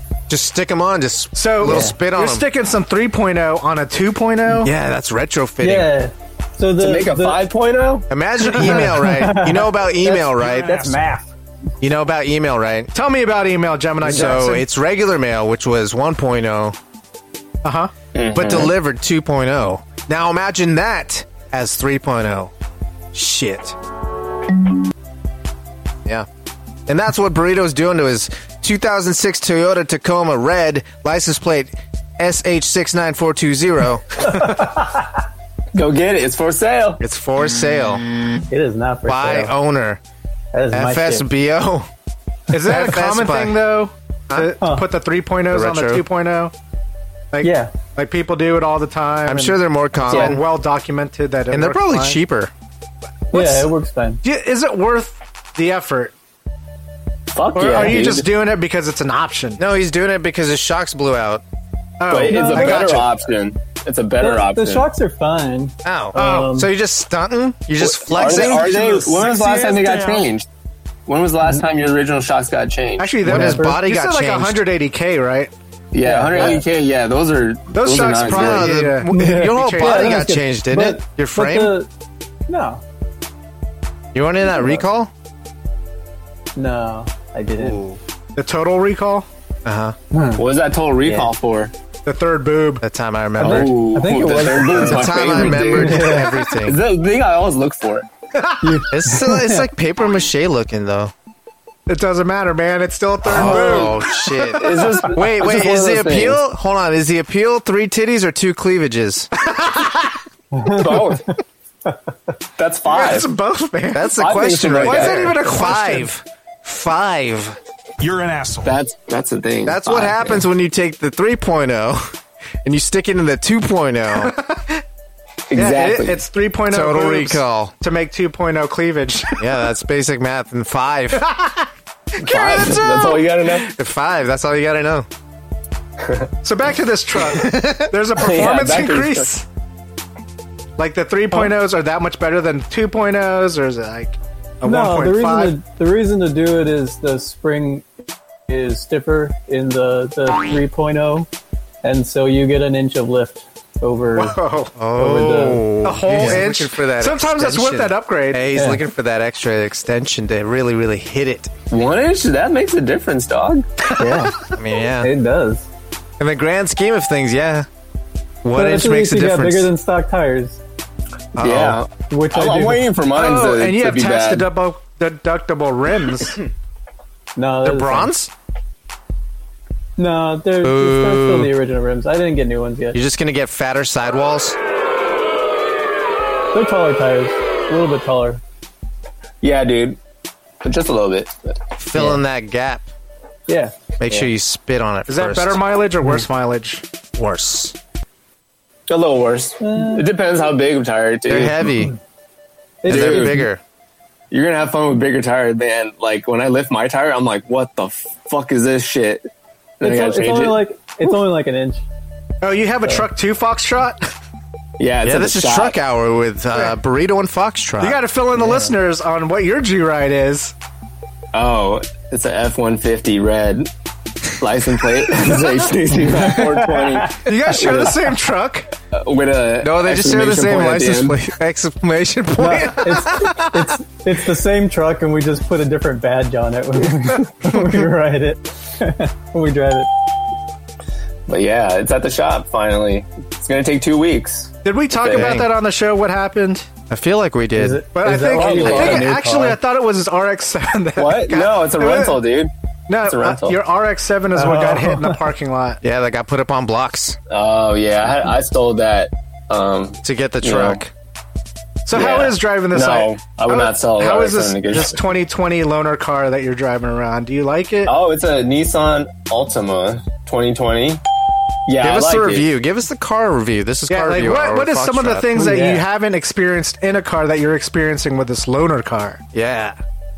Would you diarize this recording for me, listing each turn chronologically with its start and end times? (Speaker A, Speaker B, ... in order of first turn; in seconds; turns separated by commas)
Speaker A: 0.3-2.5, Speaker B: 1.3-4.7, Speaker C: 1.7-1.9, Speaker A: 4.6-5.9, Speaker C: 5.6-7.4, Speaker D: 6.8-8.1, Speaker A: 8.1-10.8, Speaker C: 8.5-11.3, Speaker B: 8.6-9.0, Speaker A: 11.8-12.9, Speaker B: 12.9-14.7, Speaker A: 14.0-16.7, Speaker B: 17.6-17.9, Speaker D: 18.1-18.7, Speaker A: 18.3-22.5, Speaker A: 23.1-23.7, Speaker A: 26.9-34.0, Speaker C: 34.3-35.1, Speaker D: 35.7-37.0, Speaker A: 37.0-38.0, Speaker C: 38.5-39.5, Speaker A: 39.0-40.0, Speaker C: 40.5-41.3, Speaker A: 40.7-41.9, Speaker B: 42.5-46.5, Speaker A: 42.6-43.6, Speaker A: 44.3-44.5, Speaker A: 45.5-46.0, Speaker B: 47.3-52.2, Speaker C: 47.4-47.7, Speaker A: 49.2-50.4, Speaker A: 51.5-52.5, Speaker B: 53.3-53.7, Speaker C: 53.3-54.2, Speaker B: 54.2-56.1, Speaker D: 57.3-58.3, Speaker B: 57.5-59.6, Speaker A: 59.6-61.4, Speaker B: 62.0-63.1, Speaker D: 62.1-64.9, Speaker C: 62.2-62.9, Speaker C: 64.2-66.7, Speaker A: 65.8-68.7, Speaker B: 66.1-66.5, Speaker D: 67.8-70.5, Speaker E: 68.2-70.2, Speaker D: 71.1-73.1, Speaker B: 73.0-75.5, Speaker A: 73.2-74.6, Speaker C: 73.2-73.8, Speaker D: 75.9-78.7, Speaker C: 76.0-76.6, Speaker B: 77.7-80.3, Speaker A: 78.2-81.7, Speaker C: 79.1-81.9, Speaker C: 82.5-82.8, Speaker A: 84.1-85.1, Speaker C: 84.5-84.8, Speaker C: 86.5-87.8, Speaker A: 87.6-88.0, Speaker B: 88.3-89.3, Speaker A: 89.6-89.9, Speaker C: 90.1-90.4, Speaker D: 90.3-91.7, Speaker C: 91.0-91.3, Speaker B: 92.0-92.8, Speaker A: 92.8-93.8, Speaker C: 93.4-96.5, Speaker D: 93.4-98.1, Speaker A: 94.8-96.8, Speaker B: 98.3-98.8, Speaker C: 98.6-99.7, Speaker A: 98.9-101.1, Speaker B: 101.9-105.0, Speaker D: 103.3-104.0, Speaker A: 103.3-109.3, Speaker D: 104.6-106.4, Speaker B: 109.4-110.2, Speaker C: 110.5-111.2, Speaker D: 110.7-111.3, Speaker D: 112.6-113.3, Speaker B: 112.9-114.1, Speaker A: 113.9-117.6, Speaker D: 114.2-115.3, Speaker B: 114.8-116.1, Speaker E: 118.0-118.6, Speaker D: 118.6-120.4, Speaker A: 119.7-122.1, Speaker A: 122.6-124.3, Speaker B: 124.1-124.8, Speaker D: 125.5-126.2, Speaker B: 125.5-129.5, Speaker A: 126.7-127.7, Speaker A: 129.4-131.3, Speaker B: 131.1-133.5, Speaker D: 132.2-133.7, Speaker A: 133.7-135.1, Speaker D: 136.0-136.3, Speaker B: 136.4-139.4, Speaker D: 138.1-139.3, Speaker B: 140.8-145.6, Speaker C: 144.6-147.9, Speaker C: 148.5-151.3, Speaker C: 151.8-154.4, Speaker B: 154.1-154.7, Speaker A: 154.8-161.5, Speaker C: 154.9-155.6, Speaker B: 155.8-158.4, Speaker C: 158.5-158.8, Speaker D: 161.7-163.7, Speaker C: 163.9-164.5, Speaker B: 164.0-164.3, Speaker A: 164.5-165.1, Speaker C: 165.0-165.7, Speaker A: 166.2-167.7, Speaker A: 168.4-169.7, Speaker C: 168.5-170.6, Speaker A: 171.3-171.8, Speaker D: 171.4-174.5, Speaker C: 172.1-172.9, Speaker B: 173.1-176.4, Speaker C: 177.3-178.1, Speaker A: 177.6-178.3, Speaker C: 180.0-183.0, Speaker A: 180.6-181.5, Speaker A: 182.9-184.6, Speaker C: 186.5-188.4, Speaker D: 189.4-190.0, Speaker D: 190.6-192.2, Speaker A: 191.8-192.9, Speaker C: 193.5-193.7, Speaker A: 194.0-195.6, Speaker B: 195.1-196.8, Speaker A: 197.2-197.7, Speaker D: 198.9-201.7, Speaker C: 199.6-200.1, Speaker A: 201.3-201.9, Speaker C: 202.8-203.5, Speaker D: 202.9-203.3, Speaker A: 202.9-203.6, Speaker D: 204.3-209.3, Speaker D: 209.8-210.6, Speaker C: 209.8-211.8, Speaker B: 212.4-214.1, Speaker D: 214.8-215.8, Speaker A: 215.0-218.0, Speaker B: 217.8-220.5, Speaker C: 218.3-218.7, Speaker D: 221.3-223.7, Speaker D: 224.4-228.1, Speaker C: 226.1-227.3, Speaker B: 227.2-228.7, Speaker D: 228.9-231.2, Speaker A: 229.6-233.6, Speaker C: 232.4-239.9, Speaker D: 241.3-245.3, Speaker B: 244.6-246.7, Speaker A: 245.1-245.5, Speaker A: 246.9-247.8, Speaker C: 247.6-249.6, Speaker B: 247.9-252.2, Speaker D: 248.3-249.1, Speaker D: 251.0-252.5, Speaker B: 252.9-255.8, Speaker D: 253.0-253.6, Speaker C: 254.3-255.2, Speaker A: 255.8-257.1, Speaker D: 257.3-260.8, Speaker A: 260.0-260.9, Speaker B: 261.9-267.9, Speaker D: 261.9-265.0, Speaker D: 267.8-271.0, Speaker D: 271.7-272.5, Speaker A: 271.8-275.3, Speaker B: 273.9-279.2, Speaker C: 275.3-275.8, Speaker A: 279.3-279.8